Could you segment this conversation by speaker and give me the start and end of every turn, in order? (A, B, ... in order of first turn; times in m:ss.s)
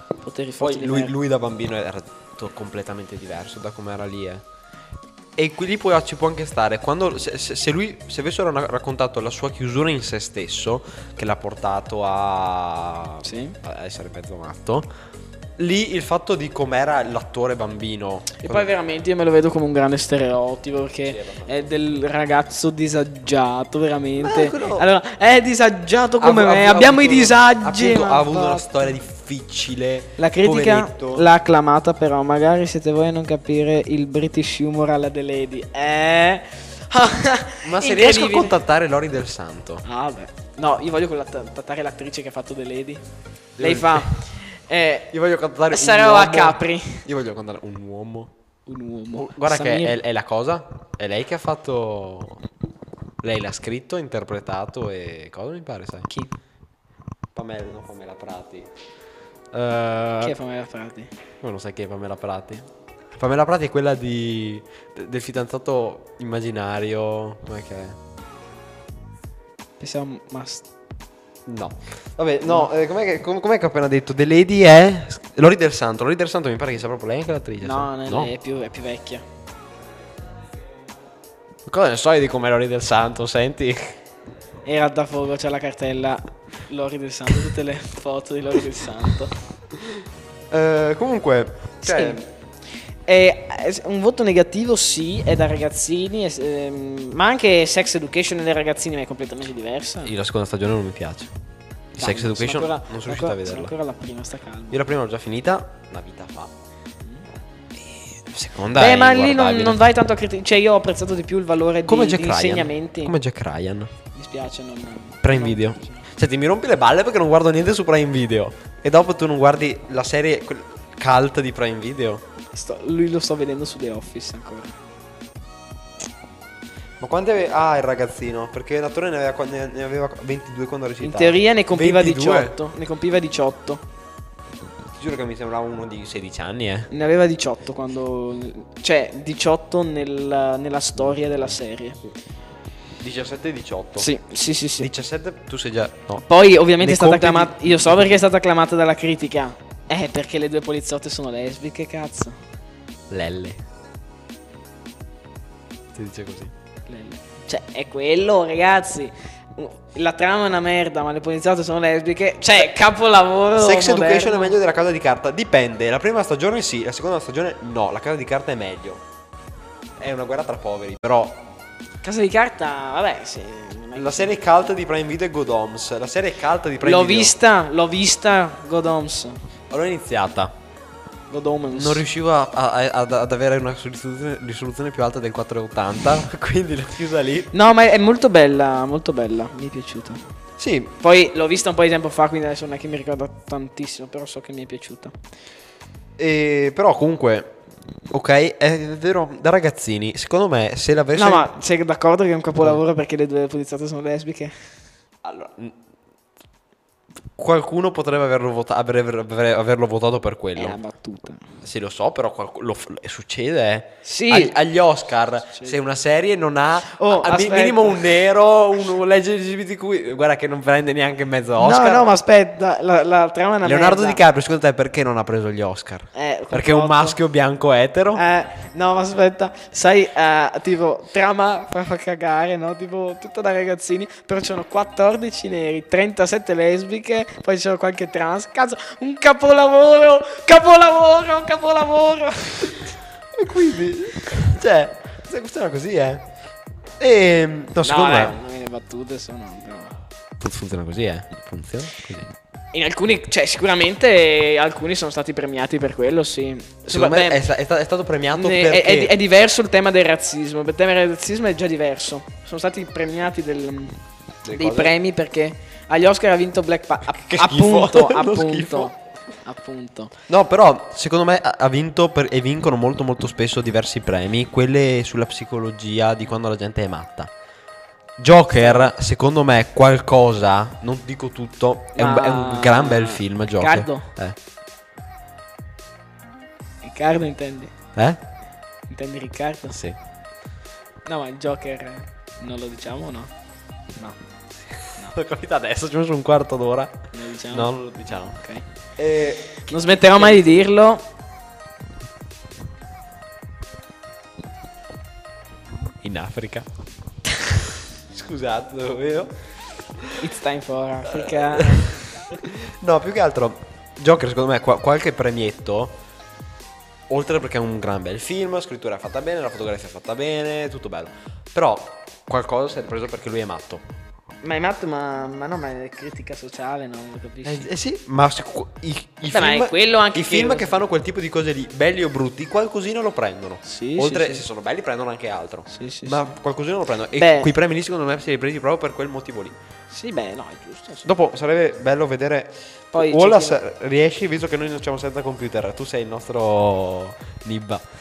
0:00.2-0:01.1 A
0:00.6-0:04.4 B
0:05.4-0:14.9 B
0:13.2-0:13.6 A
0:15.6-0:18.7 B
0:18.4-0:28.8 A
0:21.0-0:21.6 B
0:24.2-0:24.8 B
0:26.2-0:31.3 B
0:30.2-0:38.6 A
0:37.6-0:39.8 B
0:39.8-0:43.0 A
0:43.6-0:44.2 B
0:43.6-0:45.1 A
0:45.1-0:48.3 B
0:45.7-0:47.0 A
0:48.7-0:50.0 A
0:49.1-0:52.4 B
0:53.2-0:56.1 B
0:57.3-0:58.7 B
0:59.5-1:00.4 B
1:00.2-1:01.1 A
1:01.4-1:08.0 B
1:09.8-1:10.6 A
1:11.4-1:18.3 B
1:17.6-1:19.2 A
1:21.7-1:24.0 B
1:24.6-1:29.3 A
1:29.8-1:32.2 B
1:31.8-1:32.3 A
1:33.1-1:40.1 A
1:40.0-1:41.3 B
1:41.9-1:44.8 A
1:42.0-1:43.7 B
1:44.7-1:46.5 B
1:48.2-1:49.8 B
1:48.7-1:53.1 A
1:51.9-1:53.9 B
1:54.1-1:56.0 A
1:55.2-2:02.2 B
2:02.5-2:04.8 A
2:07.0-2:12.6 B
2:11.0-2:13.8 A
2:15.0-2:16.9 B
2:16.9-2:22.0 A
2:23.0-2:24.1 B
2:24.0-2:24.9 A
2:24.8-2:26.2 B
2:26.2-2:32.4 A
2:26.8-2:28.2 B
2:33.1-2:33.6 B
2:35.9-2:36.5 B
2:36.9-2:44.6 A
2:43.6-2:49.0 B
2:50.0-2:51.4 B
2:52.0-2:54.4 A
2:53.9-2:57.3 B
2:56.8-2:59.4 A
2:59.7-3:00.5 B
3:01.3-3:02.0 A
3:01.7-3:07.5 B
3:07.5-3:10.2 A
3:10.6-3:10.9 B
3:11.0-3:15.1 A
3:16.2-3:17.5 B
3:18.1-3:21.5 B
3:21.1-3:24.5 A
3:25.2-3:25.8 B
3:27.4-3:30.8 B
3:30.6-3:31.4 A
3:31.6-3:42.1 B
3:34.0-3:34.5 A
3:36.9-3:38.0 A
3:41.6-3:44.2 A
3:43.6-3:48.2 B
3:46.1-3:47.2 A
3:48.1-4:02.9 A
4:03.3-4:06.3 B
4:07.0-4:08.4 B
4:07.8-4:09.9 A
4:10.4-4:12.3 B
4:12.7-4:17.4 A
4:16.9-4:19.2 B
4:18.3-4:24.0 A
4:24.4-4:24.9 B
4:24.5-4:30.1 A
4:27.2-4:28.9 B
4:30.3-4:37.3 B
4:38.2-4:44.4 B
4:38.5-4:38.9 A
4:42.0-4:44.1 A
4:46.8-4:47.7 A
4:48.0-4:48.2 B
4:48.9-4:49.8 A
4:49.7-4:50.0 B
4:51.0-4:53.3 A
4:54.7-4:58.4 B
4:57.1-4:58.6 A
4:59.0-5:00.6 B
4:59.5-5:01.0 A
5:06.0-5:06.7 B
5:07.4-5:09.3 B
5:10.2-5:12.4 A
5:11.1-5:16.0 B
5:17.1-5:23.8 B
5:24.4-5:27.7 A
5:27.4-5:39.6 B
5:29.3-5:30.8 A
5:33.6-5:34.4 A
5:35.7-5:36.3 A
5:37.2-5:37.5 A
5:39.9-5:41.1 A
5:41.0-5:47.8 B
5:42.9-5:43.6 A